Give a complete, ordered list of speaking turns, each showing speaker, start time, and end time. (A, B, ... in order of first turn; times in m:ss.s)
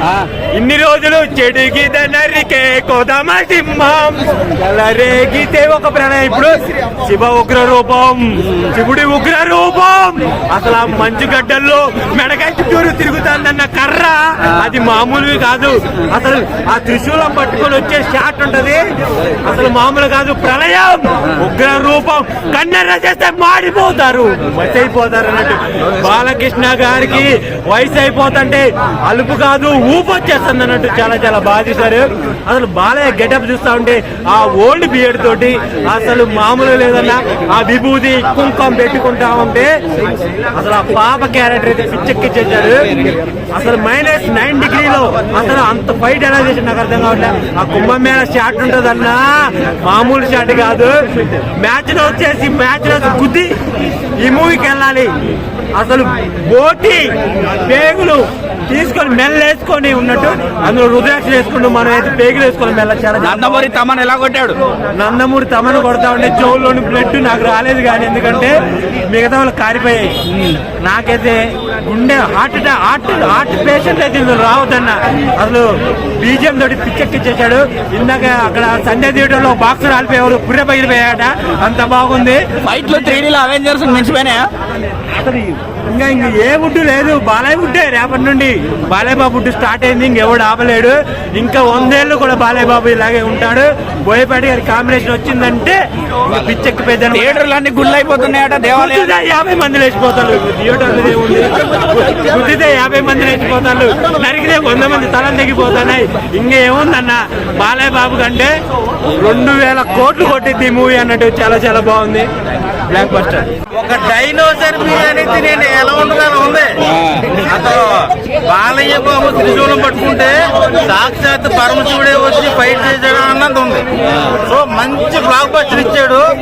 0:00.5-0:18.8 A
0:19.4-0:39.7 A
0:40.5-0:42.9 A
0:43.5-0:51.0 A
0:51.6-0:53.5 A
0:54.2-0:55.1 A
0:55.8-0:57.1 A
0:57.6-1:03.7 A
1:03.2-1:04.6 B
1:04.9-1:08.6 A
1:09.1-1:10.1 A
1:10.8-1:23.2 A
1:22.6-1:24.5 B
1:25.1-1:37.4 A
1:37.1-1:39.1 B
1:38.7-1:48.5 A
1:49.2-1:52.3 A
1:52.9-1:53.5 A
1:53.8-1:56.8 C
1:57.3-2:03.8 C
2:04.5-2:06.2 C